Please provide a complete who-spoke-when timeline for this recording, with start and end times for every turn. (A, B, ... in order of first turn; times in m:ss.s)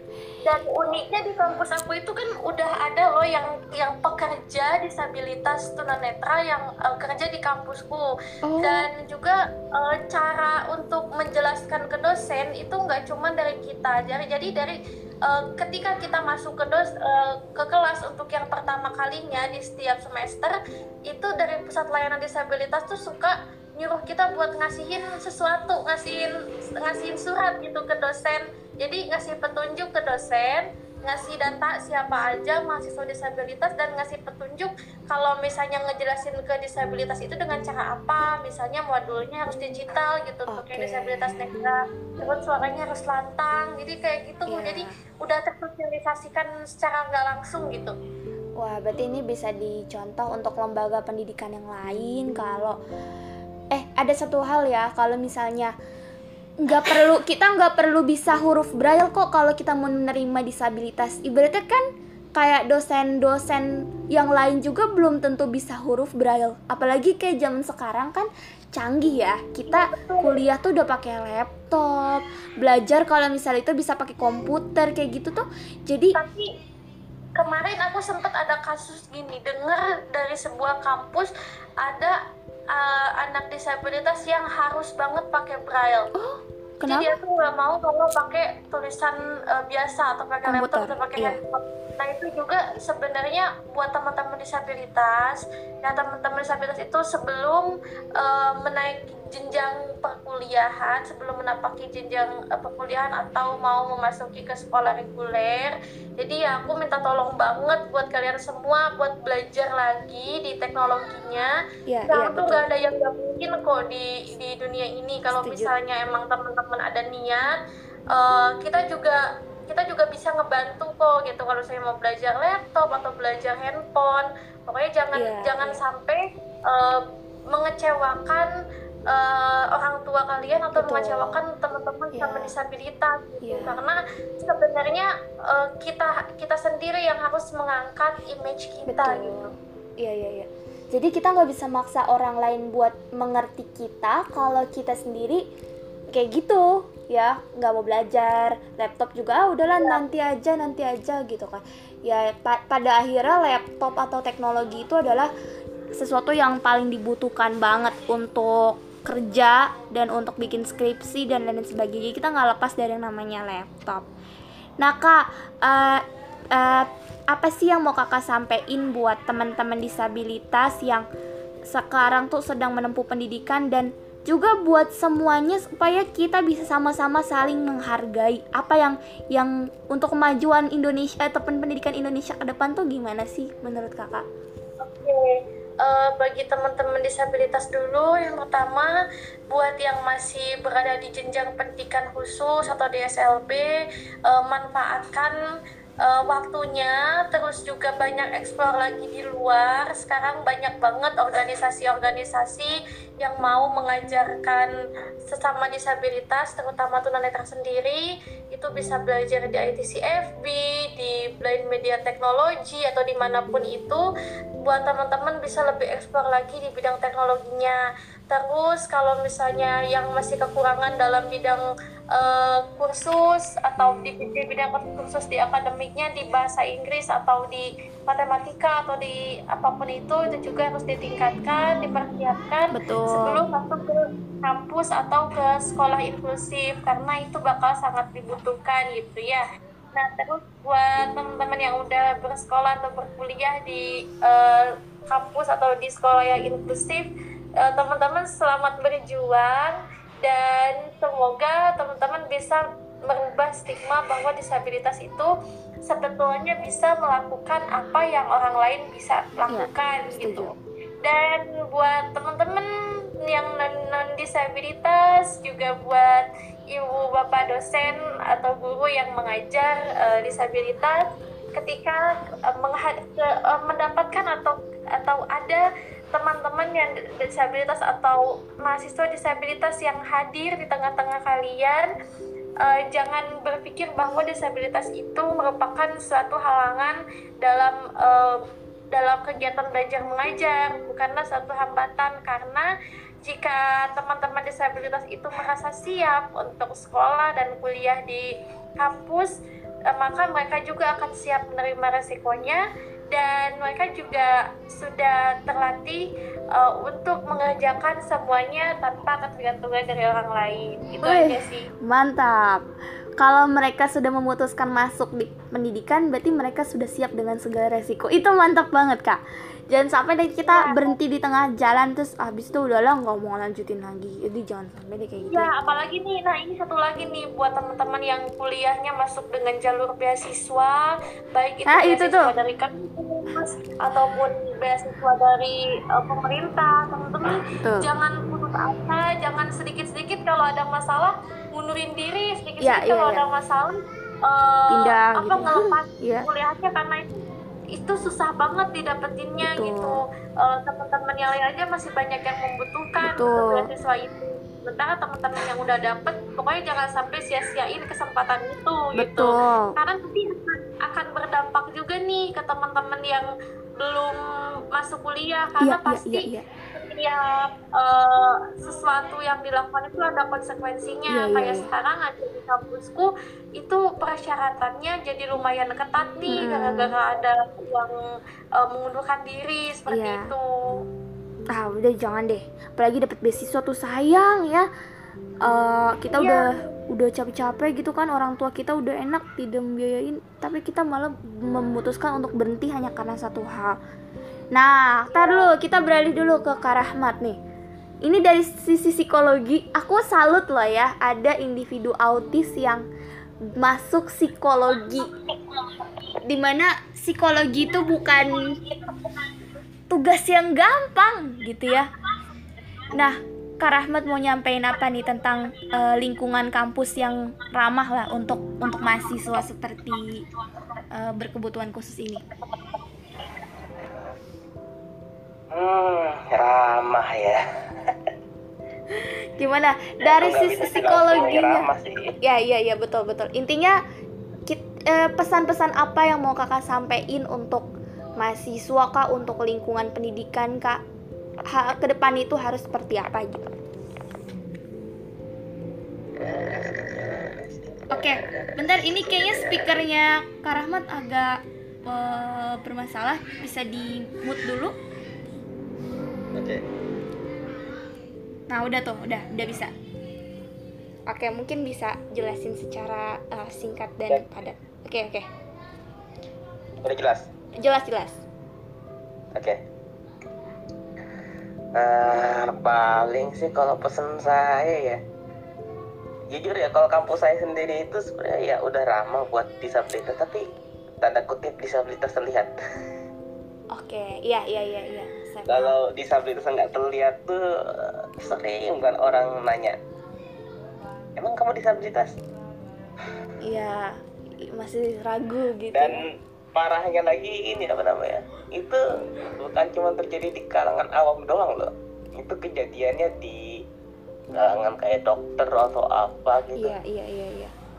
0:00.4-0:08.1 A
0:08.4-0:08.9 B
0:08.6-0:48.0 A
0:40.5-0:41.4 B
0:44.5-0:45.0 B
0:48.6-0:52.8 B
0:53.7-0:55.7 B
0:56.6-1:01.8 B
1:02.4-1:16.2 B
1:09.7-1:10.4 A
1:16.1-1:16.5 A
1:17.4-1:22.2 A
1:22.7-1:26.1 A
1:26.2-1:27.2 B
1:26.8-1:51.5 A
1:30.5-1:31.4 B
1:51.9-1:52.7 B
1:52.1-1:57.6 A
1:55.4-1:55.7 B
1:58.1-2:08.5 A
2:05.2-2:05.8 B
2:09.1-2:19.4 A
2:10.8-2:11.4 B
2:12.1-2:12.5 B
2:13.4-2:13.8 B
2:18.9-2:19.5 B
2:20.0-2:25.4 B
2:26.1-2:35.3 B
2:29.8-2:30.0 A
2:36.0-2:44.0 B
2:44.8-2:46.0 B
2:46.5-2:51.0 B
2:51.7-3:04.2 B
3:04.8-3:08.9 A
3:09.5-3:13.7 A
3:14.3-3:15.4 A
3:16.0-3:24.7 A
3:25.3-3:34.0 A
3:34.6-3:59.4 A
3:52.7-3:53.4 B
4:00.0-4:07.1 A
4:07.6-4:15.3 A
4:15.9-4:22.7 A
4:19.5-4:20.6 B
4:23.2-4:31.0 A
4:31.6-4:41.9 A
4:42.6-4:48.4 A
4:48.9-4:52.7 A
4:53.2-4:58.3 A
4:58.8-4:59.3 A
4:59.9-5:11.7 A
5:11.0-5:12.6 B
5:13.2-5:25.5 B
5:20.4-5:21.0 A
5:25.3-5:47.2 A
5:31.7-5:32.3 B
5:37.4-5:37.9 B
5:42.6-5:43.2 B
5:44.7-5:46.3 B
5:47.7-6:04.2 A
5:49.4-5:50.0 B
5:53.0-5:53.7 B
5:59.0-5:59.8 B
6:04.7-6:18.0 A
6:05.6-6:06.5 B
6:11.1-6:11.7 B
6:16.3-6:16.9 B
6:18.6-6:20.4 A
6:19.9-6:20.3 B
6:21.5-6:24.7 B
6:25.4-6:33.8 B
6:26.1-6:26.7 A
6:34.5-6:37.4 B
6:35.1-6:35.5 A
6:38.0-6:42.9 B
6:43.5-6:45.1 B
6:44.7-6:46.2 A
6:46.2-6:48.6 B
6:47.6-6:49.4 A
6:49.9-6:51.9 B
6:52.9-7:00.2 B
6:54.7-6:55.8 A
6:58.8-6:59.1 A
7:00.9-7:02.2 B
7:02.5-7:02.8 A
7:05.5-7:08.0 C
7:08.9-7:11.7 B
7:10.0-7:12.1 C
7:12.2-7:13.8 B
7:14.5-7:20.8 B
7:21.5-7:23.5 B
7:26.2-7:29.7 C
7:27.9-7:34.8 B
7:36.4-7:36.6 C
7:38.5-7:39.7 B
7:41.1-7:45.3 B
7:46.8-7:47.3 C
7:47.6-7:48.2 B
7:49.3-7:49.6 C
7:51.8-7:55.0 C
7:56.3-8:00.4 C
8:01.0-8:02.5 C
8:03.7-8:05.8 B
8:05.5-8:09.8 C
8:11.2-8:12.1 C
8:13.4-8:16.0 B
8:15.7-8:23.6 C
8:24.3-8:26.8 C
8:26.6-8:27.5 B